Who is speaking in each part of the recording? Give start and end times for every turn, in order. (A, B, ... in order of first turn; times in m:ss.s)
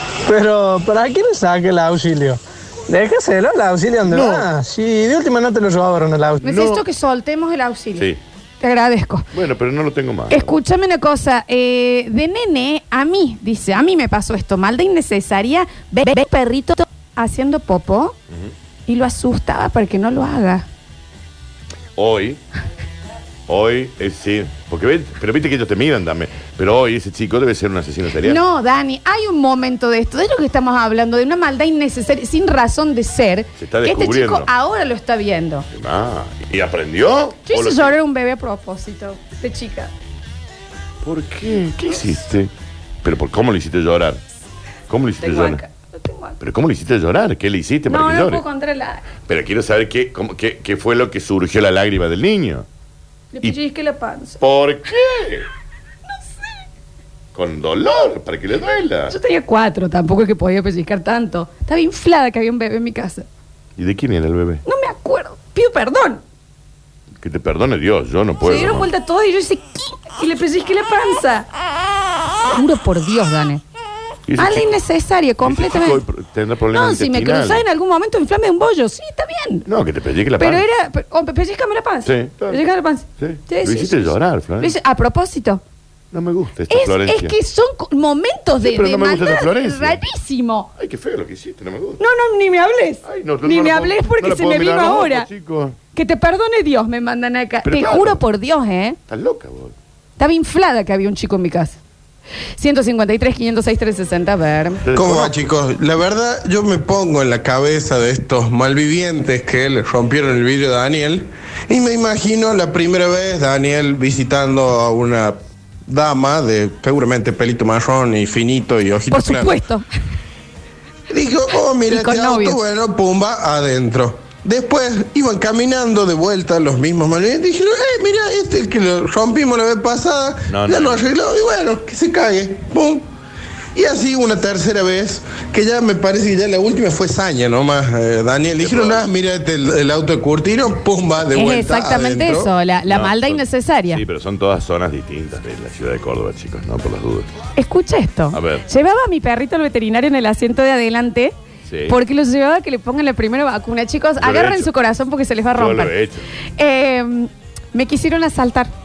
0:00.2-0:06.4 A
0:04.1-0:04.5 B
0:06.4-0:08.1 C
0:06.4-0:06.8 B
0:08.6-0:09.3 C
0:09.3-0:10.5 B
0:10.3-0:18.2 C
0:18.9-0:20.7 C
0:22.0-0:22.4 B
0:23.5-0:28.4 B
0:28.2-0:35.7 C
0:33.6-0:34.5 B
0:35.7-0:37.9 B
0:37.5-0:39.9 C
0:41.0-0:42.5 B
0:43.0-0:44.2 B
0:44.9-0:45.6 B
0:45.2-0:46.4 C
0:46.4-0:48.4 B
0:47.9-0:49.1 C
0:49.3-0:52.7 B
0:53.3-0:54.4 C
0:54.4-0:55.5 B
0:57.3-0:59.1 B
0:59.1-1:03.2 C
1:03.8-1:04.6 B
1:04.6-1:06.2 C
1:07.2-1:08.9 B
1:08.4-1:11.5 C
1:12.5-1:13.6 C
1:14.3-1:14.7 B
1:14.4-1:16.0 C
1:15.4-1:17.6 B
1:16.7-1:19.7 C
1:19.7-1:20.6 B
1:20.4-1:25.6 C
1:22.1-1:22.6 B
1:23.2-1:24.7 B
1:26.1-1:27.3 B
1:26.7-1:30.7 C
1:28.6-1:30.0 B
1:30.8-1:32.0 B
1:32.0-1:35.3 C
1:33.0-1:35.8 B
1:35.9-1:39.0 C
1:37.6-1:38.2 B
1:39.1-1:39.8 B
1:40.2-1:41.8 C
1:42.6-1:44.8 C
1:44.8-1:45.5 B
1:44.9-1:59.6 D
1:59.1-1:59.9 C
2:01.1-2:13.1 D
2:01.9-2:02.6 C
2:10.5-2:11.1 B
2:13.8-2:22.5 D
2:18.6-2:19.1 B
2:21.3-2:24.0 C
2:22.9-2:27.3 B
2:27.6-2:31.4 C
2:28.3-2:28.6 B
2:31.7-2:32.0 B
2:31.9-2:35.9 C
2:34.2-2:34.7 B
2:35.6-2:36.3 B
2:36.6-2:38.7 C